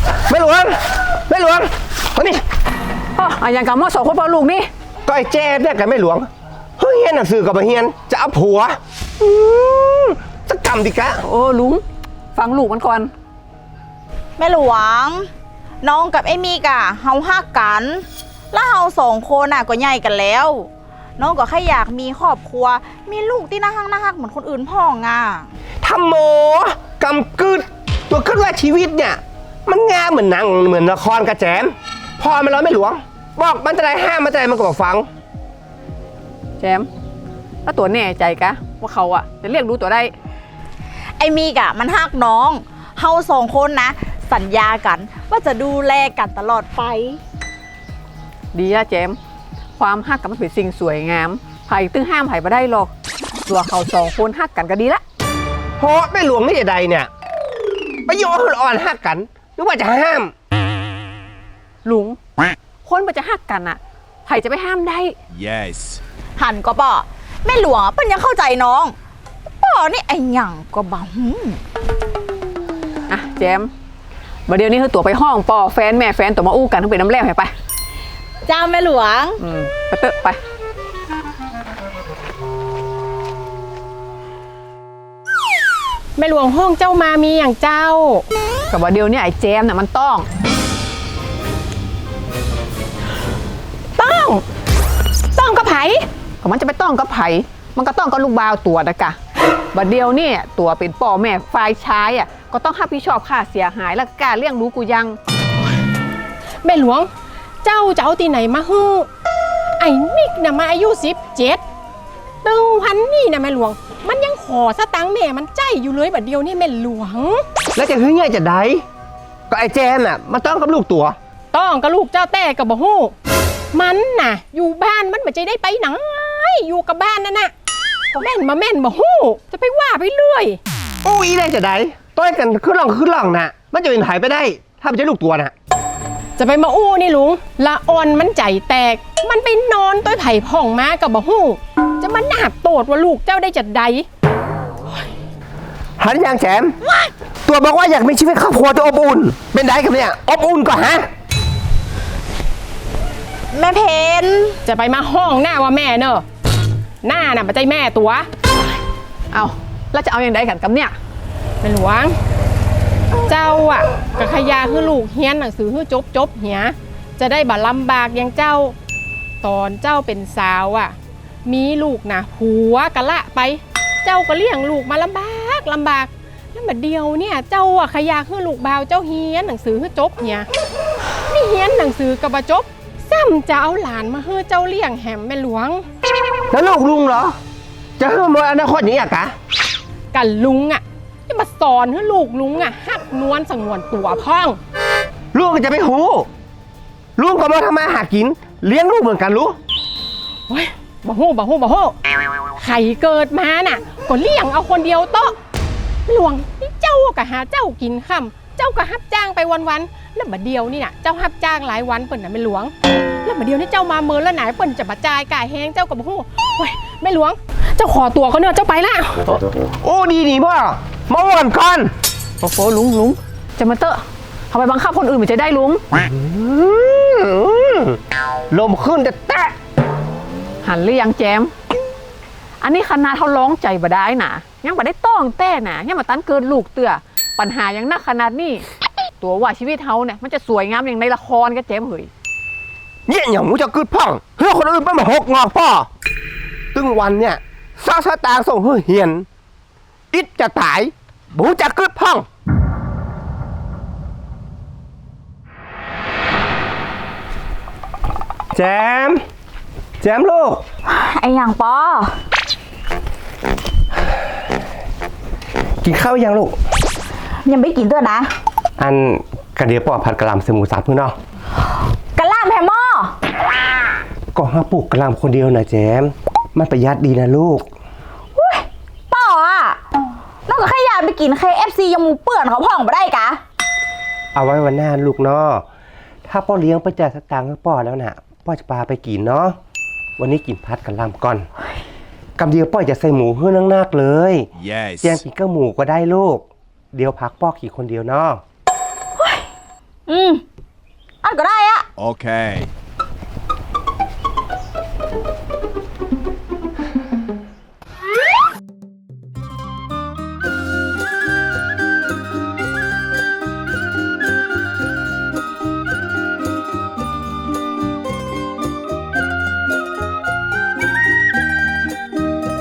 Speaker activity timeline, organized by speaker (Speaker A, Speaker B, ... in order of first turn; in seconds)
Speaker A: 0.3-2.4, 5.1-11.2, 25.8-35.1, 55.8-57.1, 58.1-60.3, 117.8-118.8, 119.5-121.2, 131.0-135.5, 146.0-146.7, 147.4-151.1, 186.5-187.3, 188.0-189.3, 195.3-196.3, 197.2-199.6, 219.8-221.9, 225.9-228.0, 228.5-229.5, 243.1-245.9, 246.7-249.3, 250.1-252.2, 258.5-259.2, 260.0-260.6, 265.8-266.5, 268.8-271.1, 274.3-277.6, 284.3-285.6, 286.3-289.5, 290.2-291.4, 292.4-294.5, 295.0-298.4
Speaker B: 3.2-4.7, 11.2-11.8, 12.3-13.1, 36.6-36.9, 37.6-40.1, 48.5-49.2, 49.8-52.9, 53.5-55.0, 61.8-62.2, 62.8-65.1, 73.1-73.7, 74.5-77.5, 79.4-80.4, 88.7-90.2, 96.4-99.2, 99.7-105.2, 159.3-160.9, 222.4-225.8, 230.6-231.5, 232.6-238.6, 239.2-242.1
Speaker C: 14.4-15.3, 15.8-25.5, 41.2-47.2, 66.4-68.9, 69.6-71.6, 78.5-79.4, 153.5-154.6, 260.9-262.1, 267.4-268.3, 272.1-273.1, 278.4-279.8, 280.5-283.4, 299.2-299.4, 300.1-300.4, 301.2-301.9
Speaker D: 65.3-66.0, 294.6-295.2, 302.0-302.7
Speaker E: 86.2-88.2, 94.0-94.4, 95.3-96.0, 106.6-107.1, 107.6-109.1, 109.8-111.6, 112.4-117.4, 121.5-123.1, 123.7-127.5, 128.1-130.6, 136.4-144.1, 154.6-156.2, 157.0-158.3, 161.6-162.1, 163.2-168.7, 169.4-180.5, 181.3-185.8, 190.1-194.6, 200.5-201.9, 202.6-205.3, 206.1-212.7, 213.2-219.4